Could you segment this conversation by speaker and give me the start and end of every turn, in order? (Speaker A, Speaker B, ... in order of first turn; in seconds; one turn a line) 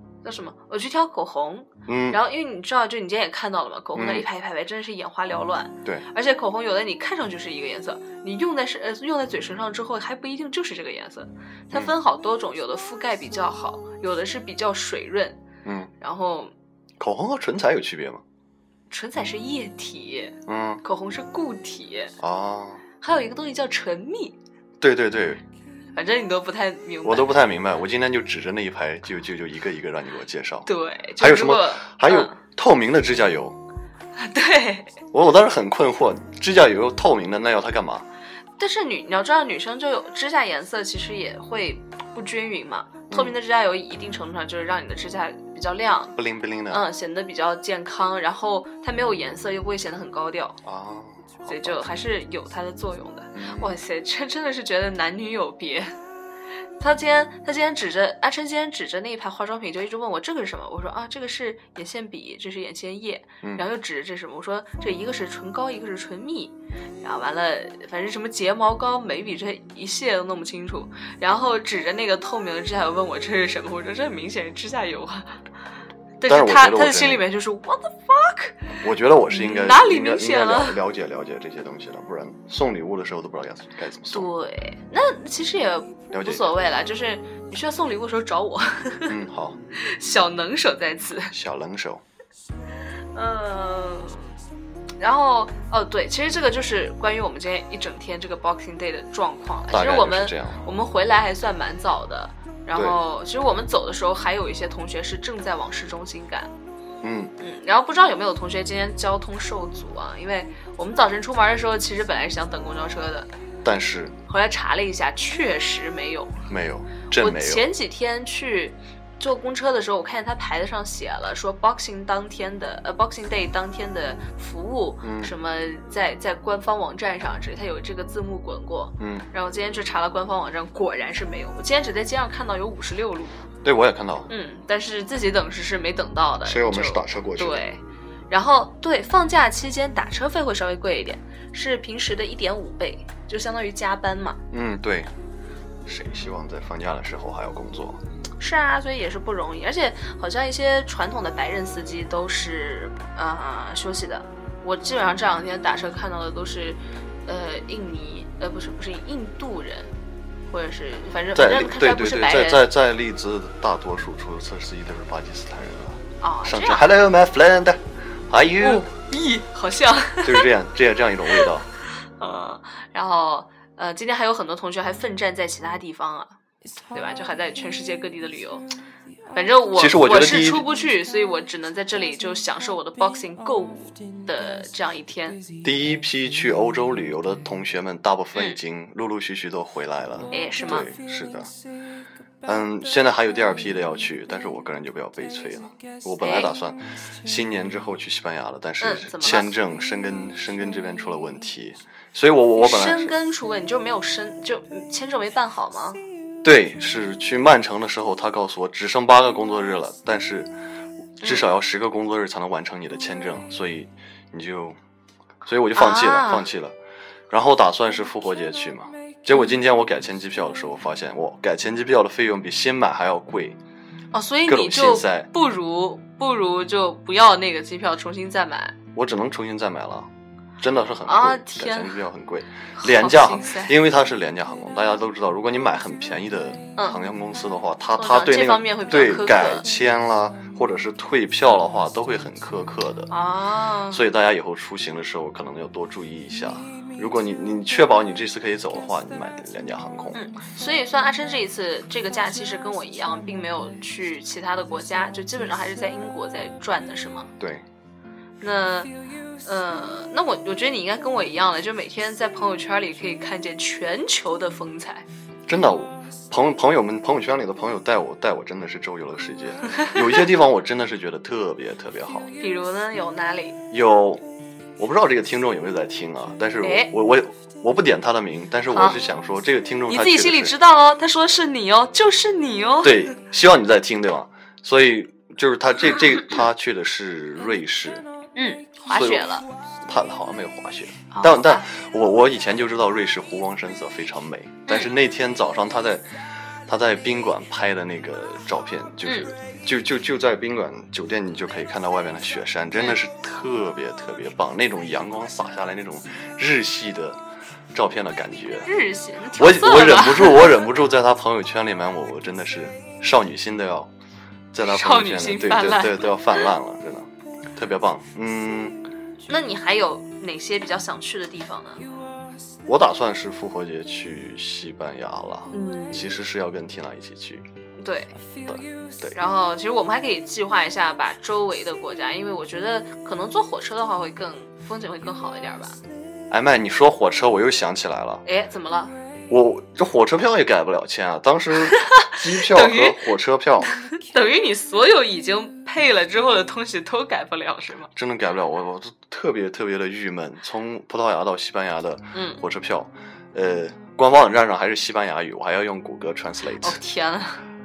Speaker A: 0.2-15.4
Speaker B: 1.9-2.2
Speaker B: 3.9-4.2
Speaker B: 15.6-15.9
Speaker A: 16.0-16.5
Speaker B: 17.0-18.2
Speaker A: 18.9-22.1
Speaker B: 20.5-20.8
Speaker B: 22.2-22.8
Speaker A: 23.0-24.4
Speaker B: 24.8-25.4
Speaker A: 25.9-27.4
Speaker B: 27.0-30.7
Speaker A: 30.6-32.4
Speaker B: 31.2-33.6
Speaker A: 34.2-35.0
Speaker B: 35.1-38.0
Speaker A: 38.6-46.2
Speaker B: 43.1-43.4
Speaker B: 46.2-46.8
Speaker A: 46.7-50.6
Speaker B: 50.6-51.9
Speaker A: 51.5-55.9
Speaker B: 53.3-53.8
Speaker A: 56.8-75.4
Speaker A: 76.2-78.7
Speaker B: 76.3-77.2
Speaker B: 78.8-84.3
Speaker A: 79.3-80.8
Speaker A: 84.1-89.1
Speaker B: 86.1-86.4
Speaker B: 89.1-89.6
Speaker A: 89.7-91.3
Speaker B: 91.3-92.0
Speaker A: 93.1-94.3
Speaker A: 95.0-106.5
Speaker B: 99.7-100.6
Speaker B: 107.0-107.3
Speaker A: 107.4-113.3
Speaker B: 113.6-114.2
Speaker A: 114.3-116.4
Speaker B: 116.5-117.7
Speaker A: 117.2-133.4
Speaker B: 125.0-125.3
Speaker B: 129.0-129.3
Speaker B: 133.6-134.3
Speaker A: 134.3-144.4
Speaker B: 136.4-137.7
Speaker B: 144.5-145.1
Speaker B: 145.8-148.0
Speaker A: 148.4-159.9
Speaker A: 160.5-162.7
Speaker B: 161.3-168.9
Speaker A: 166.2-166.9
Speaker A: 168.6-170.5
Speaker B: 170.2-171.7
Speaker A: 171.3-176.4
Speaker A: 176.9-178.7
Speaker A: 179.3-185.4
Speaker B: 179.7-180.7
Speaker B: 185.6-191.5
Speaker A: 190.3-190.9
Speaker B: 192.4-203.1
Speaker A: 196.2-196.6
Speaker A: 198.8-199.5
Speaker A: 202.6-206.0
Speaker B: 206.4-210.5
Speaker B: 211.2-214.8
Speaker A: 211.2-211.5
Speaker B: 215.4-216.8
Speaker A: 215.7-216.4
Speaker B: 217.3-223.6
Speaker A: 224.1-228.8
Speaker B: 224.4-225.3
Speaker B: 228.9-230.1
Speaker B: 230.6-243.1
Speaker A: 231.1-232.0
Speaker A: 232.8-233.7
Speaker A: 238.0-239.7
Speaker A: 243.1-244.0
Speaker B: 243.9-250.2
Speaker A: 250.1-257.3
Speaker B: 257.4-257.6
Speaker A: 258.4-265.1
Speaker B: 265.5-272.3
Speaker A: 272.4-273.6
Speaker B: 273.7-274.2
Speaker B: 274.8-280.6
Speaker A: 276.6-276.9
Speaker A: 278.7-279.0
Speaker A: 279.9-283.1
Speaker B: 282.8-288.1
Speaker A: 288.4-289.4
Speaker B: 288.9-296.1
Speaker A: 291.1-291.6
Speaker A: 294.7-294.9
Speaker B: 296.7-307.2
Speaker B: 307.7-308.7
Speaker A: 308.6-310.6
Speaker B: 309.3-313.9
Speaker B: 314.5-318.8
Speaker A: 314.6-316.5
Speaker A: 319.3-321.9
Speaker B: 322.6-327.4
Speaker A: 325.5-326.1
Speaker A: 327.8-328.2
Speaker B: 328.4-329.1
Speaker A: 329.1-335.8
Speaker B: 336.3-338.2
Speaker A: 338.2-338.9
Speaker B: 339.3-343.7
Speaker A: 341.7-343.1
Speaker A: 343.9-347.9
Speaker B: 347.9-356.8
Speaker A: 352.1-352.4
Speaker A: 356.6-357.4